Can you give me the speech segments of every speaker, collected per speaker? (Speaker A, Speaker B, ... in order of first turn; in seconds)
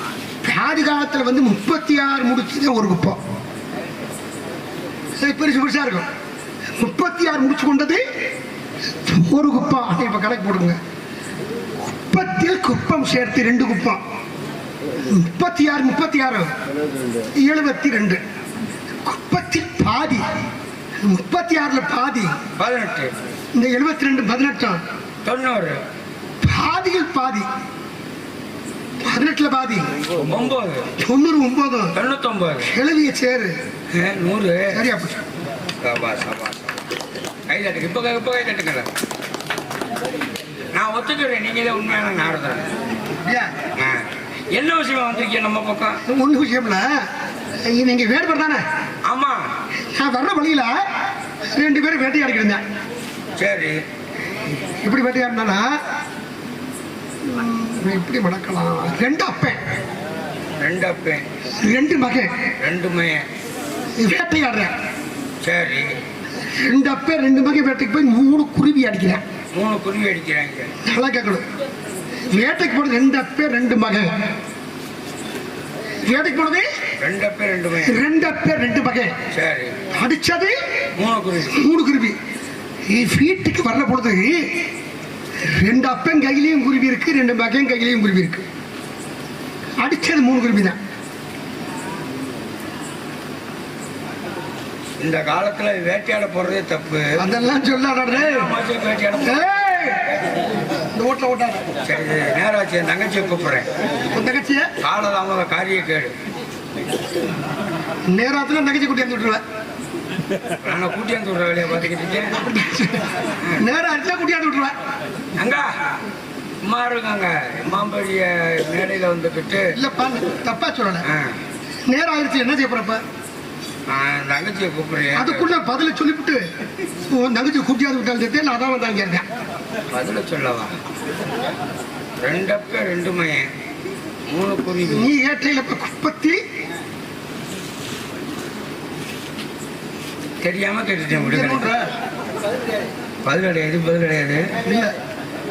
Speaker A: 0.4-3.2, 5.2-6.1, 6.8-8.0, 9.1-10.8, 11.8-14.0, 15.1-16.5, 17.4-18.2, 19.1-20.2, 21.0-22.3, 23.6-24.8, 26.4-27.5, 29.0-29.9, 31.0-31.9, 32.7-33.5, 34.7-35.2, 43.2-43.5, 46.1-46.9, 47.7-48.6, 49.9-50.7, 51.5-52.6, 54.8-55.7, 57.2-59.6, 61.6-62.3, 64.0-64.7, 66.5-69.2, 70.8-71.4, 72.3-74.3, 76.0-76.7, 77.8-79.2, 79.9-80.5, 81.5-82.2, 82.9-84.4, 85.4-88.4, 89.8-90.8, 97.2-98.5, 99.2-100.0, 100.9-101.7, 104.1-104.7, 108.1-109.4, 112.4-114.7, 119.7-121.0, 121.9-123.0, 125.1-126.4, 127.1-129.2, 134.9-136.4, 141.1-141.8, 144.6-144.9
Speaker B: 22.6-23.1, 25.2-25.8, 30.2-30.9, 31.9-32.7, 33.9-34.8, 35.8-36.7, 37.5-38.9, 40.8-42.6, 43.8-46.0, 49.1-49.4, 53.4-53.8, 60.6-61.2, 62.6-63.2, 65.4-65.9, 69.5-70.7, 77.0-78.0, 79.3-79.8, 81.0-81.5, 95.0-97.2, 98.1-99.4, 101.8-103.7, 104.8-106.1, 110.6-112.4, 115.4-115.7, 116.6-119.7, 121.0-121.3, 123.9-125.5, 129.9-130.7, 132.2-133.5, 134.3-135.1, 140.4-141.7, 143.2-144.4